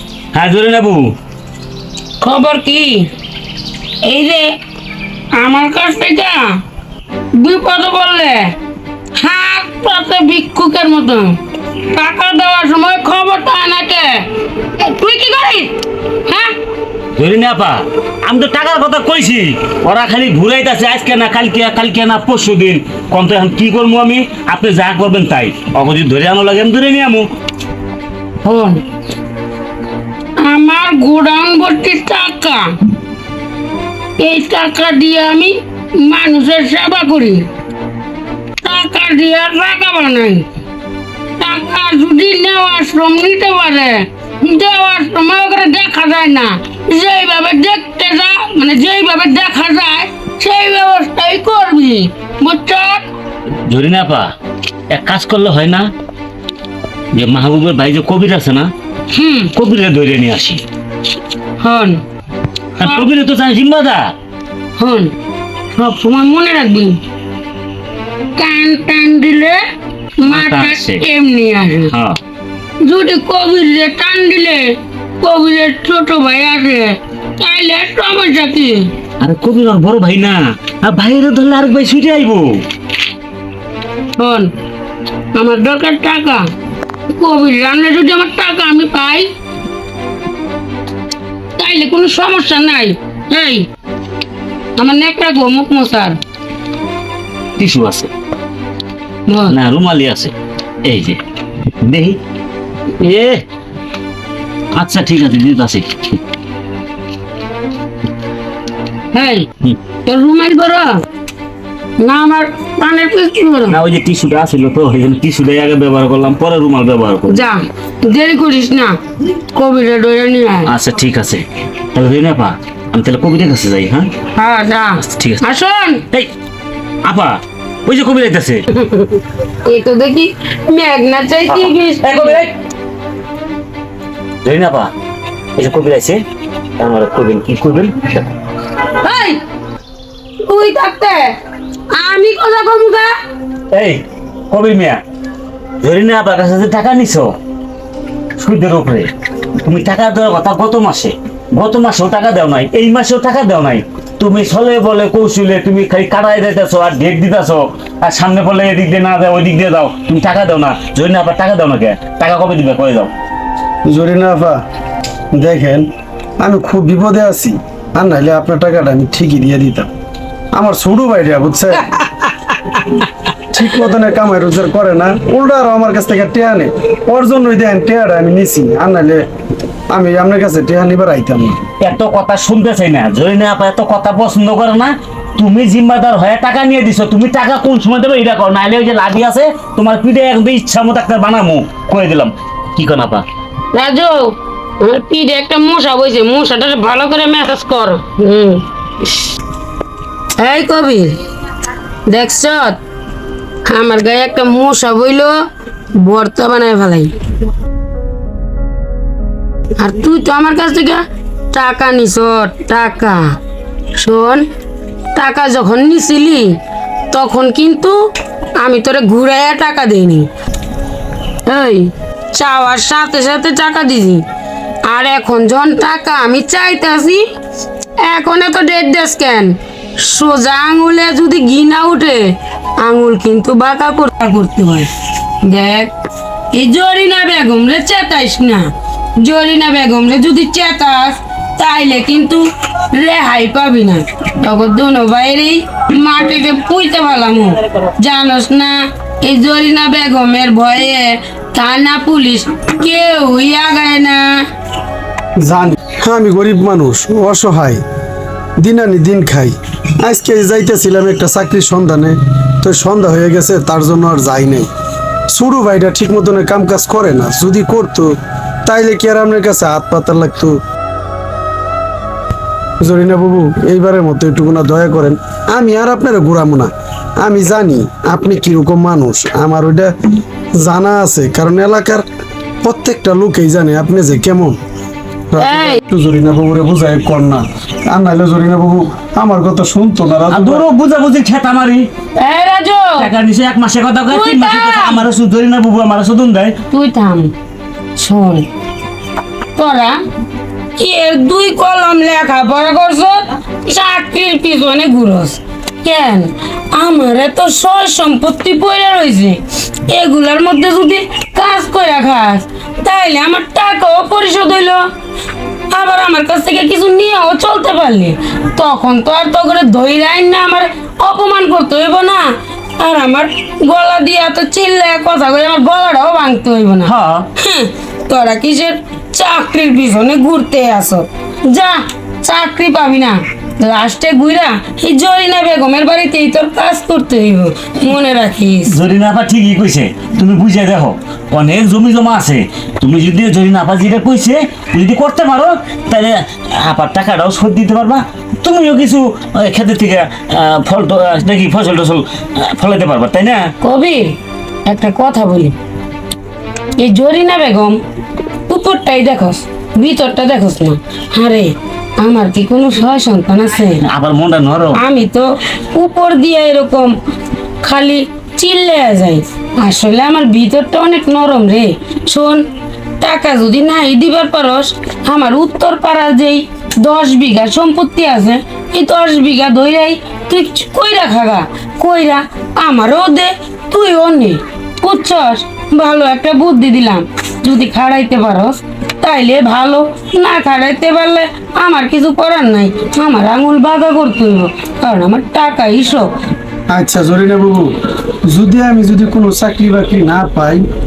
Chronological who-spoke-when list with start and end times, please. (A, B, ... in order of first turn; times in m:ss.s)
0:00.3-0:01.1 A
0:02.2-0:03.0 B
0:04.0-0:04.5 B
0:05.3-0:06.6 B
0:07.3-0:08.5 B
0:09.2-0:15.7 B
0:16.2-0:16.5 B
0:17.2-0:27.3 A
0:28.4-0:28.8 B
0:30.4-0:32.7 B
0:34.2-0:37.4 B
0:38.6-0:40.4 B
0:41.4-0:53.0 B
0:53.6-0:54.3 A
0:54.9-0:55.9 A
0:57.1-0:58.7 A
0:59.1-0:59.5 B
0:59.5-1:00.6 A
1:01.6-1:02.0 B
1:02.8-1:04.1 A
1:02.8-1:03.0 B
1:04.8-1:05.1 B
1:05.7-1:07.0 B
1:08.4-1:09.6 B
1:10.2-1:11.9 B
1:10.3-1:11.0 A
1:11.9-1:12.2 A
1:12.8-1:18.9 B
1:19.2-1:22.6 A
1:24.2-1:24.5 B
1:25.3-1:26.5 B
1:27.1-1:29.3 B
1:31.6-1:33.7 B
1:34.8-1:36.2 B
1:37.6-1:38.1 A
1:39.3-1:39.6 B
1:39.5-1:40.3 A
1:40.8-1:41.2 A
1:41.8-1:42.2 A
1:43.0-1:43.4 A
1:44.8-1:46.2 A
1:49.1-1:49.5 B
1:50.0-1:51.0 B
1:52.0-1:53.8 B
1:53.7-1:57.5 A
1:57.3-1:59.0 B
1:59.5-2:00.7 B
2:00.7-2:04.1 A
2:04.3-2:06.0 B
2:05.0-2:05.4 A
2:07.1-2:08.6 A
2:08.7-2:12.4 B
2:11.5-2:12.5 A
2:14.4-2:14.9 A
2:15.6-2:16.2 A
2:16.8-2:18.3 A
2:19.0-2:19.4 B
2:20.4-2:21.4 B
2:21.9-2:23.1 B
2:23.7-2:25.0 A
2:25.8-2:27.3 A
2:28.4-2:29.1 A
2:29.6-2:43.1 A
2:43.8-2:44.6 C
2:45.3-2:45.9 C
2:46.4-2:49.9 C
2:50.5-2:51.9 C
2:53.5-2:59.2 C
2:59.9-3:01.6 C
3:01.8-3:13.2 A
3:13.7-3:18.6 B
3:20.4-3:21.2 B
3:22.1-3:22.8 B
3:23.7-3:25.3 B
3:26.0-3:27.1 B
3:29.8-3:33.2 B
3:34.0-3:34.4 B
3:35.1-3:36.5 B
3:37.1-3:38.0 B
3:38.6-3:40.3 B
3:41.4-3:44.2 B
3:44.9-3:47.2 B
3:48.1-3:52.2 B
3:52.8-3:54.9 B
3:55.4-3:55.9 B
3:56.5-3:58.6 B
3:59.2-4:14.4 B
4:15.4-4:17.8 C
4:18.6-4:24.7 C
4:25.3-4:30.6 C
4:32.8-4:39.9 C
4:40.6-4:42.0 C
4:42.6-4:44.6 C
4:45.3-4:50.6 C
4:45.4-4:45.8 B
4:50.3-4:51.9 A
4:52.2-4:53.1 B
4:53.0-4:56.6 A
4:54.1-4:55.0 B
4:56.7-4:57.3 B
4:58.0-4:58.4 B
4:59.6-5:00.0 B
5:00.8-5:14.8 B
5:15.7-5:22.3 B
5:22.8-5:38.8 B
5:26.8-5:27.3 A
5:38.7-5:53.4 A
5:53.6-5:54.1 B
5:54.7-5:55.5 B
5:56.8-5:57.8 B
5:58.5-6:03.8 B
6:03.8-6:04.8 A
6:04.7-6:06.9 B
6:07.6-6:12.4 B
6:13.0-6:36.1 B
6:36.7-6:37.7 C
6:38.2-6:40.6 C